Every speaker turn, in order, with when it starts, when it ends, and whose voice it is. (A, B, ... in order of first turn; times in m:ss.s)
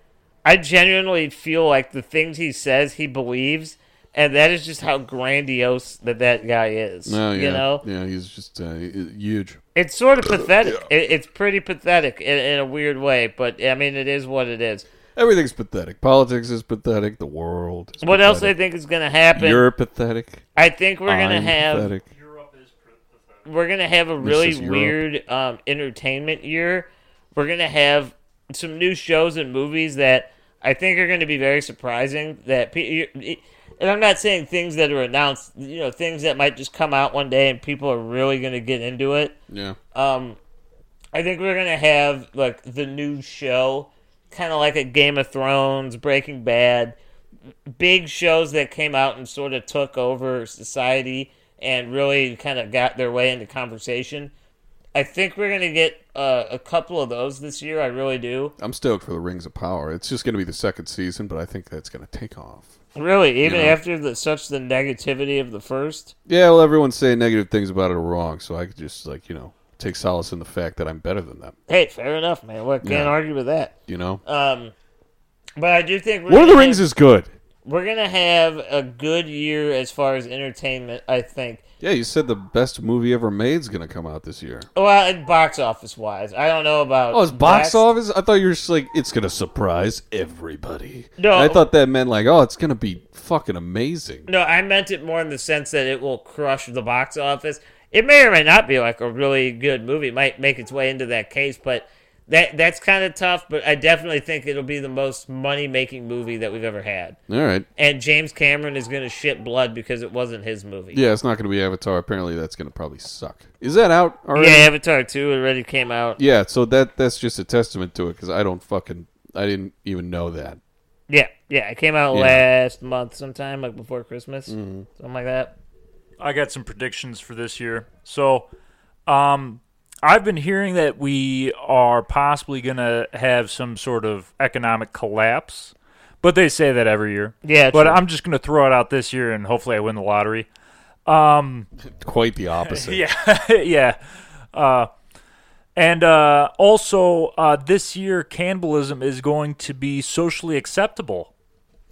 0:00.4-0:07.8 A
0:07.1-0:09.6 B
0:09.7-0:14.9 A
0:10.3-0:10.7 B
0:15.2-0:18.5 B
0:18.0-0:19.6 A
0:19.3-0:20.4 B
0:20.6-0:21.9 A
0:21.0-0:22.0 B
0:22.0-0:23.5 C
0:23.4-0:39.4 A
0:24.2-0:25.0 B
0:39.5-0:39.8 B
0:39.9-0:40.4 A
0:41.1-0:47.0 A
0:47.7-0:54.3 A
0:54.9-0:58.5 A
0:58.6-1:02.7 B
1:03.0-1:06.1 A
1:03.4-1:03.8 B
1:06.3-1:11.5 B
1:11.7-1:13.7 A
1:12.8-1:13.1 B
1:13.9-1:14.2 B
1:14.2-1:14.7 A
1:15.6-1:16.8 A
1:16.3-1:17.3 B
1:17.6-1:21.6 A
1:21.8-1:24.7 B
1:24.7-1:27.8 A
1:27.1-1:34.3 B
1:31.2-1:31.6 A
1:34.3-1:47.2 A
1:47.3-1:47.6 B
1:47.8-1:51.0 A
1:50.9-1:54.7 B
1:54.3-1:56.2 A
1:56.2-2:00.6 B
2:01.1-2:05.6 A
2:02.1-2:02.4 B
2:04.5-2:04.9 B
2:06.2-2:08.5 C
2:09.0-2:20.5 C
2:17.4-2:18.0 A
2:21.0-2:21.7 C
2:22.0-2:23.0 B
2:22.7-2:24.0 C
2:24.5-2:24.9 C
2:25.7-2:31.3 C